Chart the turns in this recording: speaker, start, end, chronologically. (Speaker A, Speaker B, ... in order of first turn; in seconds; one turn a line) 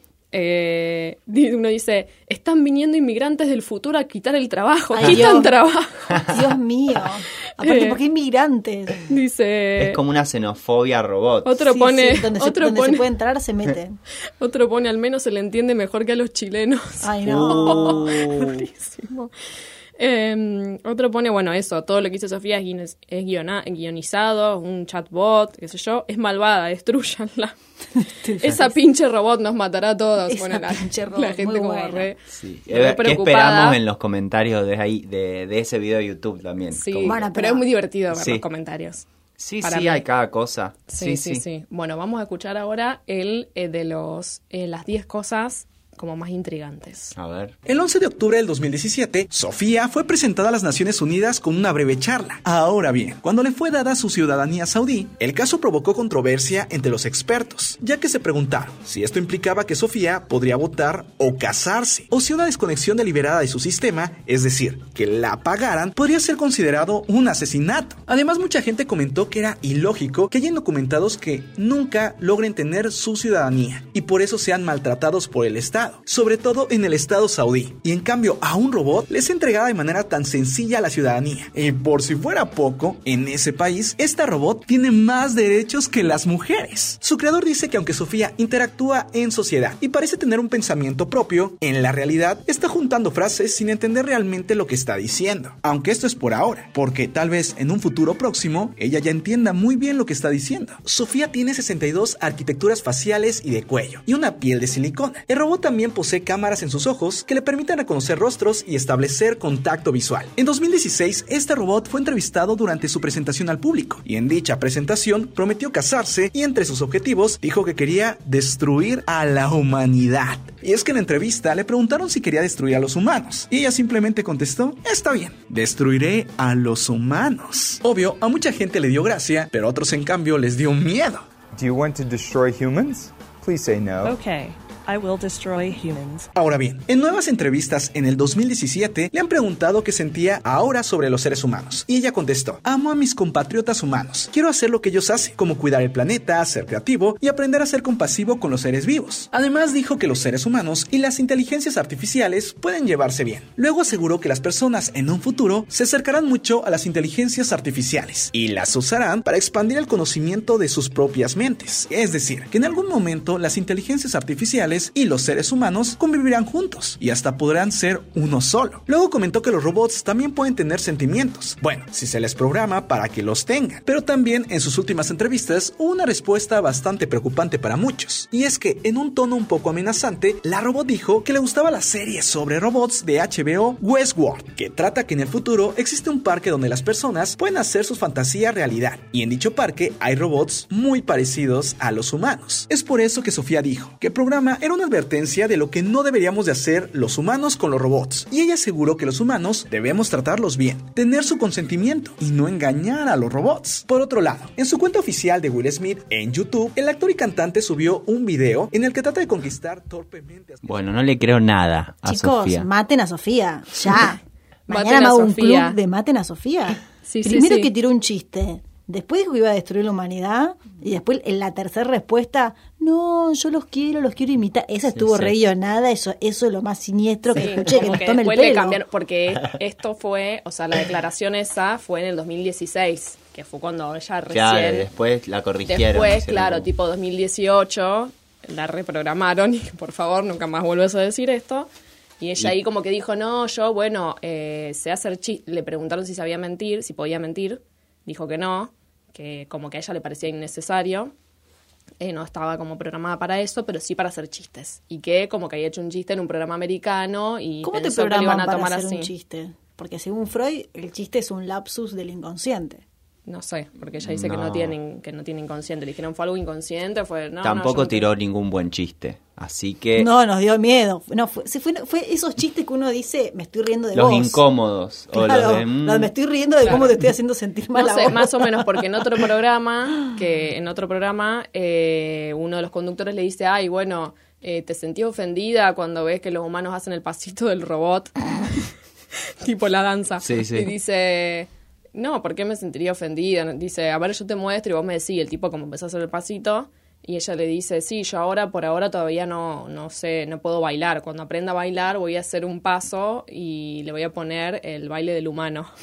Speaker A: 0.3-6.2
Speaker B: 4.9-5.5
Speaker C: 5.0-5.3
Speaker B: 6.3-9.0
Speaker A: 7.6-8.0
Speaker A: 9.1-10.0
Speaker C: 9.8-11.6
Speaker A: 11.4-13.1
Speaker B: 11.7-14.0
Speaker A: 14.4-19.3
Speaker B: 17.0-18.1
Speaker C: 17.2-18.7
Speaker A: 20.0-27.5
Speaker B: 28.0-28.7
Speaker A: 28.4-33.8
Speaker B: 30.3-32.1
Speaker C: 32.3-37.2
Speaker A: 36.7-39.0
Speaker B: 37.0-37.6
Speaker C: 38.1-38.4
Speaker C: 39.4-41.4
Speaker A: 39.6-40.0
Speaker A: 40.9-47.1
Speaker C: 47.1-47.5
Speaker D: 47.6-131.3
Speaker E: 131.5-134.2
Speaker F: 134.0-136.3
Speaker D: 136.3-210.9
Speaker C: 210.6-212.7
Speaker B: 212.1-228.8
Speaker A: 214.7-215.8
Speaker A: 217.0-217.7
Speaker C: 224.9-225.4
Speaker A: 227.3-234.9
Speaker C: 234.3-236.7
Speaker A: 235.7-241.7
Speaker A: 242.2-251.1
Speaker A: 252.0-259.1
Speaker B: 257.6-262.8
Speaker A: 263.3-268.1
Speaker C: 264.0-264.8
Speaker C: 267.4-270.1
Speaker B: 269.9-274.4
Speaker C: 273.9-276.1
Speaker B: 275.1-278.8
Speaker A: 277.7-288.1
Speaker A: 289.4-305.7
Speaker C: 290.2-290.7